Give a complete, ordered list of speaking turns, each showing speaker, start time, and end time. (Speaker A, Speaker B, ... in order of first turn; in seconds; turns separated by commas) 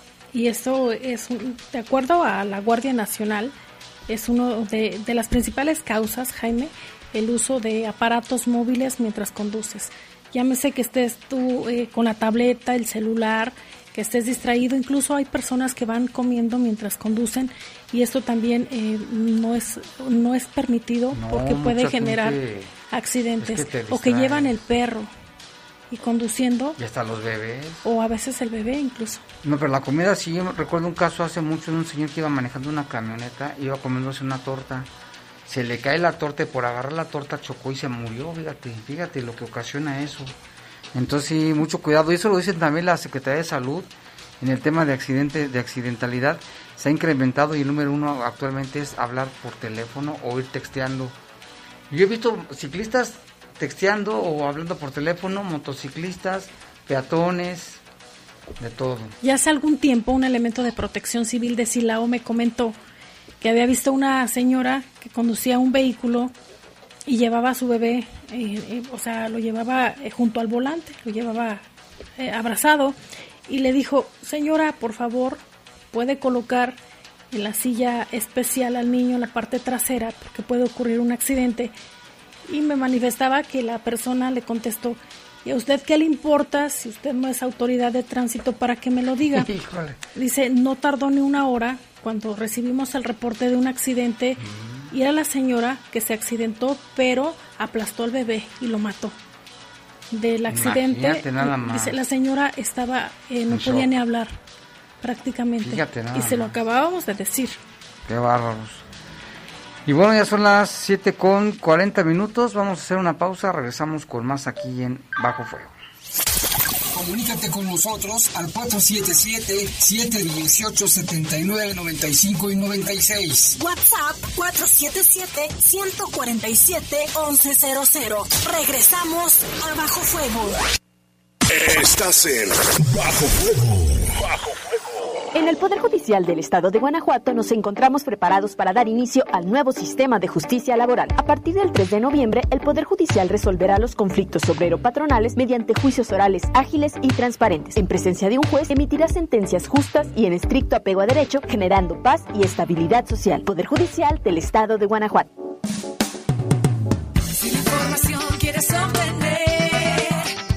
Speaker A: 0.3-3.5, Speaker A: 4.1-22.4, Speaker B: 21.1-22.7, Speaker A: 22.9-25.1, Speaker B: 23.4-24.6, Speaker A: 25.9-26.8, Speaker B: 26.8-27.9, Speaker A: 27.8-29.2, Speaker B: 29.4-34.9, Speaker B: 35.5-40.3, Speaker B: 40.9-51.1, Speaker B: 51.9-57.8, Speaker B: 58.6-59.1, Speaker A: 59.2-62.8, Speaker A: 63.4-66.3, Speaker A: 67.0-71.6, Speaker A: 72.2-75.4, Speaker A: 75.9-76.8, Speaker A: 77.3-81.7, Speaker A: 82.5-89.5, Speaker B: 89.3-90.0, Speaker A: 90.1-99.2, Speaker B: 94.4-94.9, Speaker A: 100.1-104.4, Speaker B: 100.5-102.0, Speaker B: 103.5-103.9, Speaker A: 105.0-107.6, Speaker B: 105.6-106.5, Speaker B: 108.0-108.8, Speaker B: 109.8-115.7, Speaker C: 116.9-123.5, Speaker D: 123.5-130.6, Speaker E: 131.5-134.6, Speaker F: 135.3-155.3, Speaker G: 157.3-160.3